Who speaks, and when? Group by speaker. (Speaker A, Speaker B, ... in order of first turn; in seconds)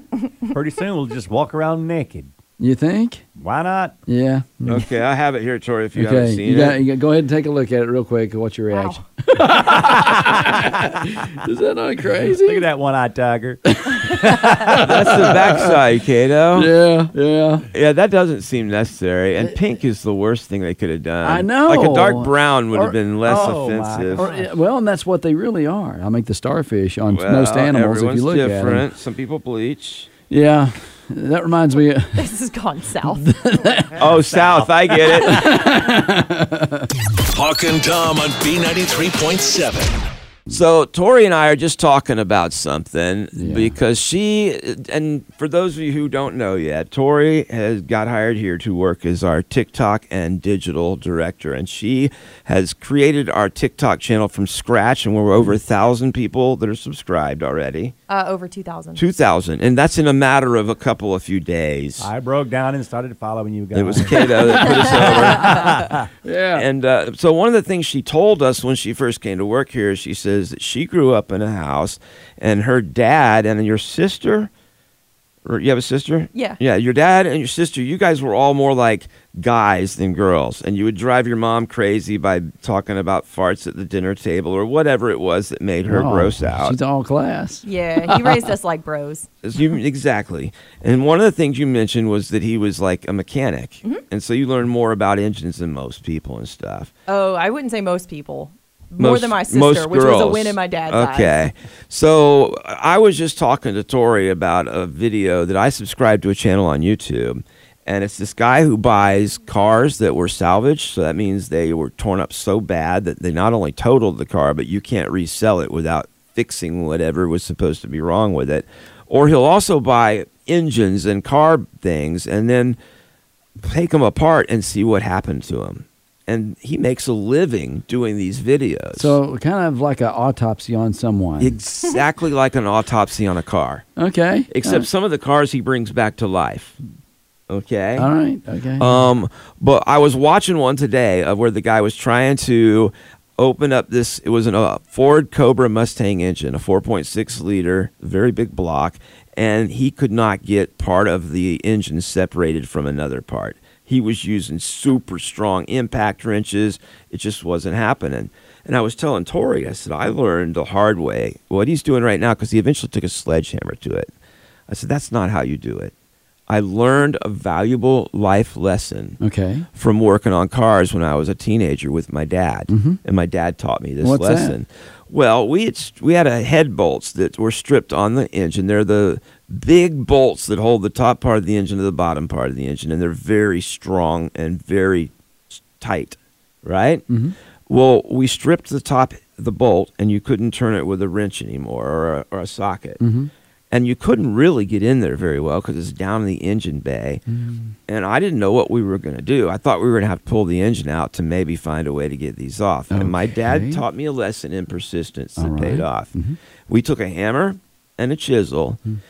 Speaker A: 0.5-2.3, 3.4-4.0, 12.1-14.8, 23.2-24.5, 33.8-35.2, 62.0-66.1
Speaker B: 2.6-3.2, 4.1-4.8, 6.0-12.7, 13.7-15.8, 16.5-17.7, 21.2-23.0, 24.1-28.9, 30.3-32.3, 33.0-34.0, 35.1-36.9, 43.4-43.8, 65.2-65.5, 66.2-66.7, 85.9-88.5, 128.9-131.6, 134.0-134.9, 138.0-139.1, 169.2-169.7, 172.7-173.0, 174.0-174.6, 187.1-187.3, 193.0-193.3, 197.3-197.7, 202.9-203.8, 205.4-206.4
Speaker C: 4.7-6.8, 14.7-16.7, 17.7-24.3, 27.1-30.1, 34.0-35.6, 40.5-58.0, 59.0-62.1, 63.7-65.8, 66.6-74.5, 75.5-86.8, 89.4-96.9, 99.0-122.8, 123.6-129.2, 131.4-133.8, 134.5-136.8, 137.5-138.1, 138.8-164.1, 164.7-165.9, 166.5-169.2, 169.8-187.1, 187.7-193.0, 193.7-197.2, 197.9-206.1, 206.7-208.8
Speaker D: 8.7-9.0, 32.2-33.3, 58.1-59.0, 87.6-89.3, 97.1-101.5
Speaker E: 37.3-40.0